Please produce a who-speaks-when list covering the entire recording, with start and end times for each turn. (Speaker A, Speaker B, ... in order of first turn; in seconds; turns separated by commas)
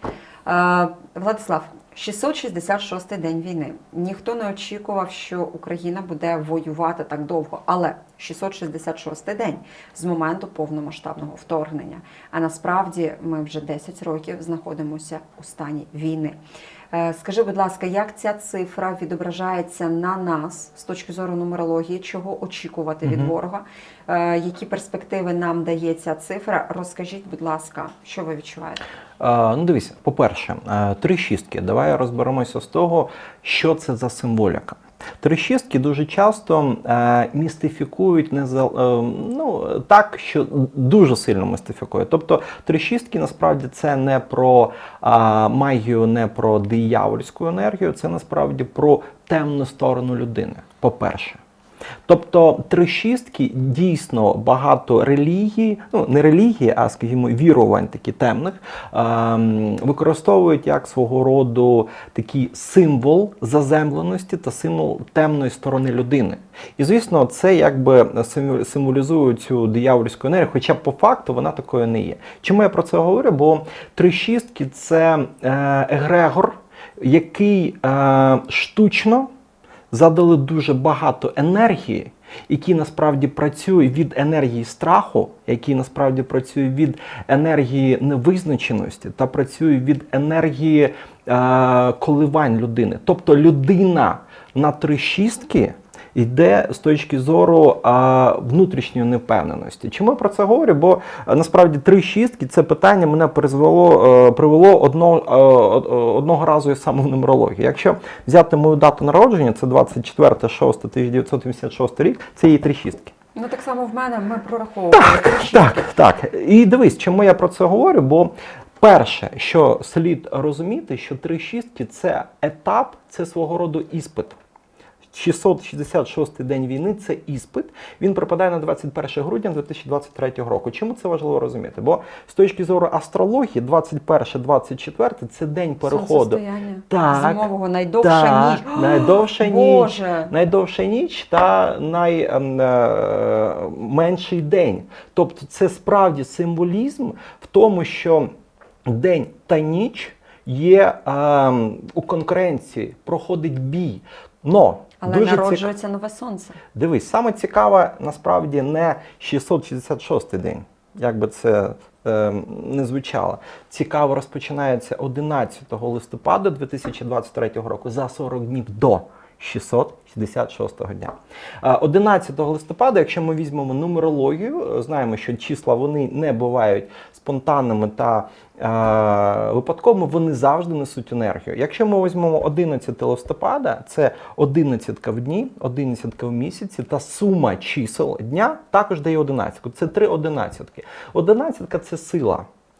Speaker A: 0.5-16.4, Speaker A: 16.9-28.8, Speaker B: 23.0-23.3, Speaker B: 29.2-51.4, Speaker B: 52.1-79.3, Speaker B: 79.9-113.1, Speaker A: 113.3-115.9, Speaker B: 114.9-124.4, Speaker B: 125.1-148.3, Speaker A: 135.8-140.3, Speaker B: 148.8-155.7, Speaker A: 155.0-156.6, Speaker B: 156.7-192.5